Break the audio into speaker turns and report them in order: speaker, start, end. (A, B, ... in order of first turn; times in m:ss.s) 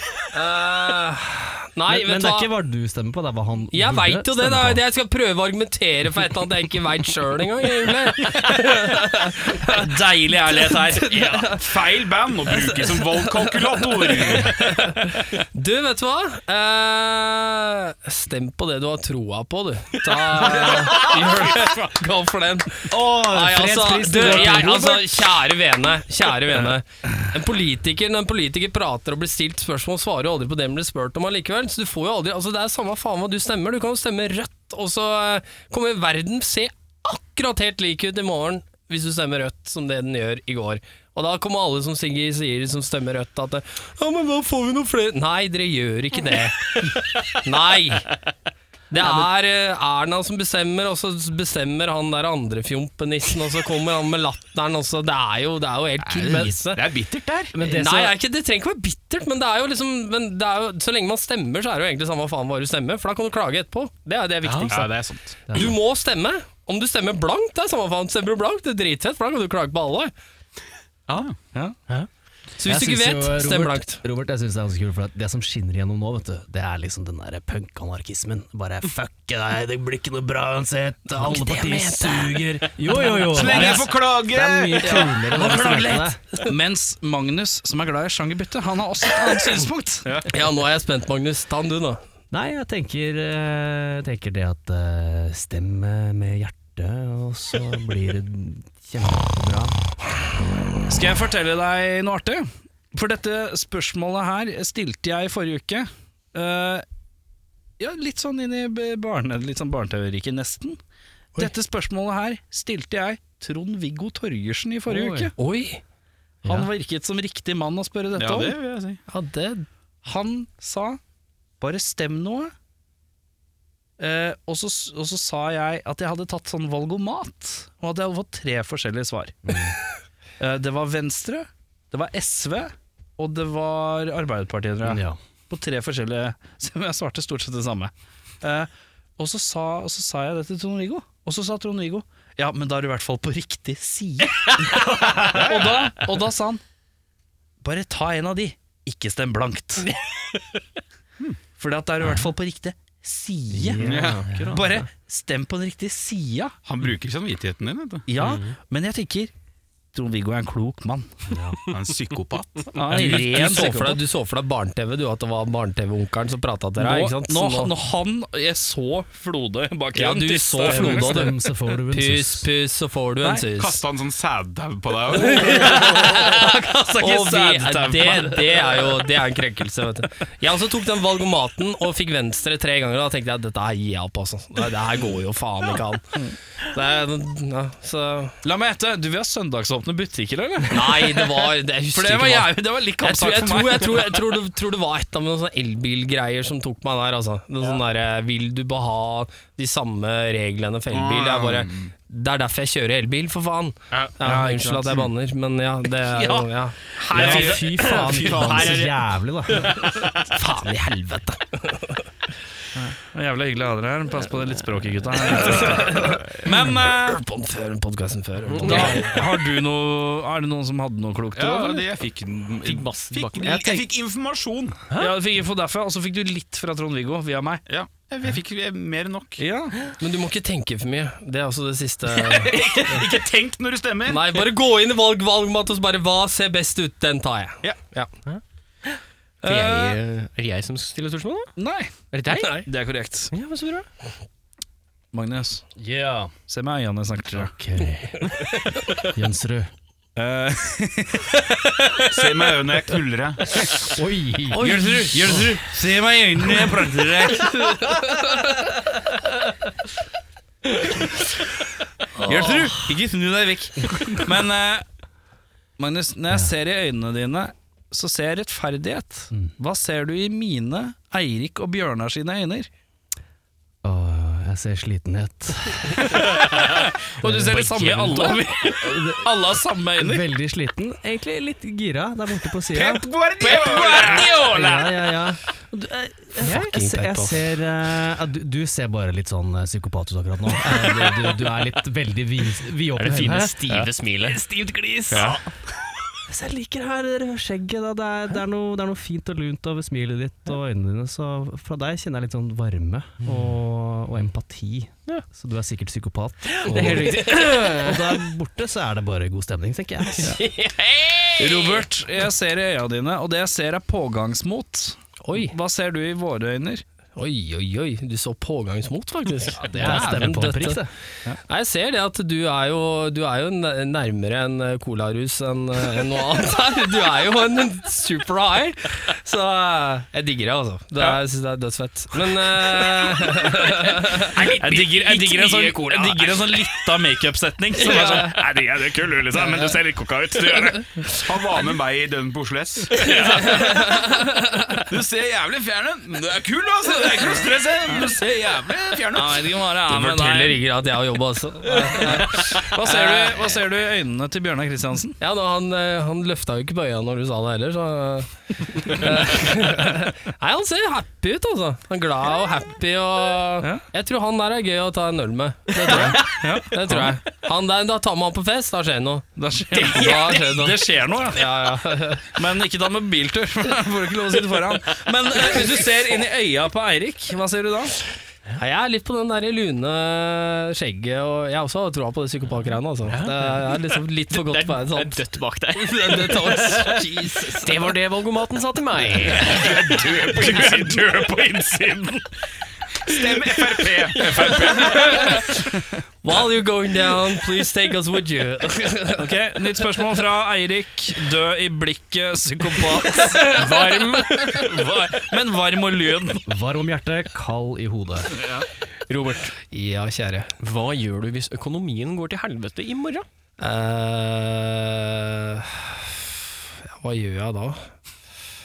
0:00.3-0:02.5 A
0:01.9-0:04.8 B
0:03.7-0:09.9 A
0:09.7-0:11.5 C
0:10.5-0:11.7 A
0:11.5-0:14.7 D
0:12.5-0:48.1 A
0:22.9-0:25.1 B
0:48.9-0:56.8 A
0:56.0-0:57.5 D
0:57.5-0:58.1 B
0:57.6-1:05.0 A
1:04.4-1:05.1 E
1:04.7-1:05.1 D
1:05.5-1:05.8 B
1:05.5-1:10.1 A
1:11.1-1:11.4 D
1:12.6-1:14.0 A
1:12.6-1:26.2 B
1:21.1-1:23.7 A
1:23.3-1:25.0 D
1:24.8-1:30.2 C
1:30.3-1:32.0 A
1:32.3-1:39.8 B
1:40.9-1:46.8 C
1:47.8-1:50.8 C
1:51.4-1:55.3 C
1:55.4-1:55.8 A
1:56.4-1:58.5 C
1:58.1-1:59.0 D
1:59.1-1:59.6 A
2:00.0-2:01.0 C
2:01.6-2:02.5 C
2:04.0-2:09.6 C
2:09.4-2:09.7 B
2:10.4-2:26.6 C
2:14.8-2:15.2 B
2:25.2-2:25.8 D
2:27.6-2:29.9 C
2:31.6-2:33.9 C
2:33.5-2:34.8 B
2:33.8-2:34.6 D
2:34.5-2:36.5 C
2:36.6-2:38.1 D
2:38.1-2:39.3 C
2:38.2-2:38.5 E
2:39.9-2:41.2 C
2:41.3-2:41.7 B
2:41.6-2:42.7 D
2:42.7-2:44.0 C
2:42.8-2:47.7 A
2:46.8-2:51.3 C
2:49.9-2:53.8 A
2:50.6-2:52.5 B
2:53.2-2:53.4 C
2:53.5-2:55.9 D
2:55.1-2:56.5 A
2:55.4-2:58.9 C
2:57.0-3:06.0 A
3:06.7-3:08.4 A
3:08.4-3:14.2 C
3:10.7-3:28.8 A
3:20.9-3:21.9 D
3:24.2-3:25.1 C
3:26.0-3:28.6 C
3:27.1-3:29.9 B
3:28.2-3:28.9 E
3:30.3-3:32.0 A
3:32.8-3:37.2 C
3:35.3-3:39.3 A
3:38.5-3:39.0 E
3:38.6-3:41.8 C
3:41.3-3:44.8 D
3:42.6-3:43.8 E
3:44.9-3:45.2 E
3:45.0-3:47.6 C
3:47.7-3:49.4 D
3:49.4-3:49.7 C
3:50.0-3:52.9 A
3:52.1-3:54.4 D
3:54.1-3:58.1 A
3:59.4-4:00.0 C
3:59.4-4:01.5 E
4:01.6-4:03.3 C
4:02.1-4:02.7 E
4:03.3-4:03.9 E
4:05.1-4:05.6 C
4:05.8-4:06.3 B
4:06.5-4:07.5 C
4:07.3-4:09.7 B
4:10.2-4:12.3 C
4:12.0-4:13.9 D
4:13.9-4:15.5 B
4:14.5-4:17.6 C
4:14.5-4:15.0 A
4:17.6-4:18.0 A
4:22.2-4:24.8 C
4:22.2-4:22.6 B
4:23.9-4:24.2 B
4:25.8-4:32.7 C
4:26.3-4:26.5 B
4:33.8-4:36.6 B
4:36.1-4:40.2 C
4:37.2-4:39.3 B
4:40.0-4:43.1 B
4:42.7-4:44.4 D
4:43.4-4:45.2 C
4:44.0-4:53.9 B
4:46.4-4:46.8 A
4:46.4-4:47.4 E
4:53.0-4:54.4 E
4:54.5-4:55.4 B
4:55.1-4:55.4 E
4:56.3-5:10.4 B
5:06.5-5:07.9 E
5:06.7-5:07.9 A
5:10.2-5:11.6 E
5:11.4-5:16.8 C
5:15.2-5:15.5 A
5:17.2-5:20.8 A
5:19.6-5:20.9 B
5:21.5-5:34.5 A
5:34.4-5:41.4 C
5:34.4-5:36.5 E
5:37.8-5:38.3 A
5:41.2-5:44.0 D
5:43.0-5:43.7 C
5:43.0-5:44.3 A
5:44.7-5:49.6 D
5:47.1-5:48.1 C
5:49.1-5:50.6 C
5:49.9-5:53.4 A
5:52.1-5:55.2 C
5:55.2-6:12.3 A
6:06.0-6:07.2 C
6:09.4-6:11.6 C
6:12.3-6:18.0 C
6:18.6-6:25.2 A
6:23.1-6:29.8 E
6:25.7-6:27.8 A
6:29.5-6:31.2 D
6:29.5-6:32.2 C
6:33.0-6:35.5 D
6:34.1-6:35.4 C
6:36.2-6:39.3 A
6:39.2-6:46.4 C
6:43.5-6:44.7 E
6:46.5-6:48.4 B
6:48.4-6:48.6 C
6:49.1-6:49.5 E
6:49.6-6:50.5 A
6:50.6-6:53.2 E
6:53.6-6:56.1 A
6:57.0-6:57.8 A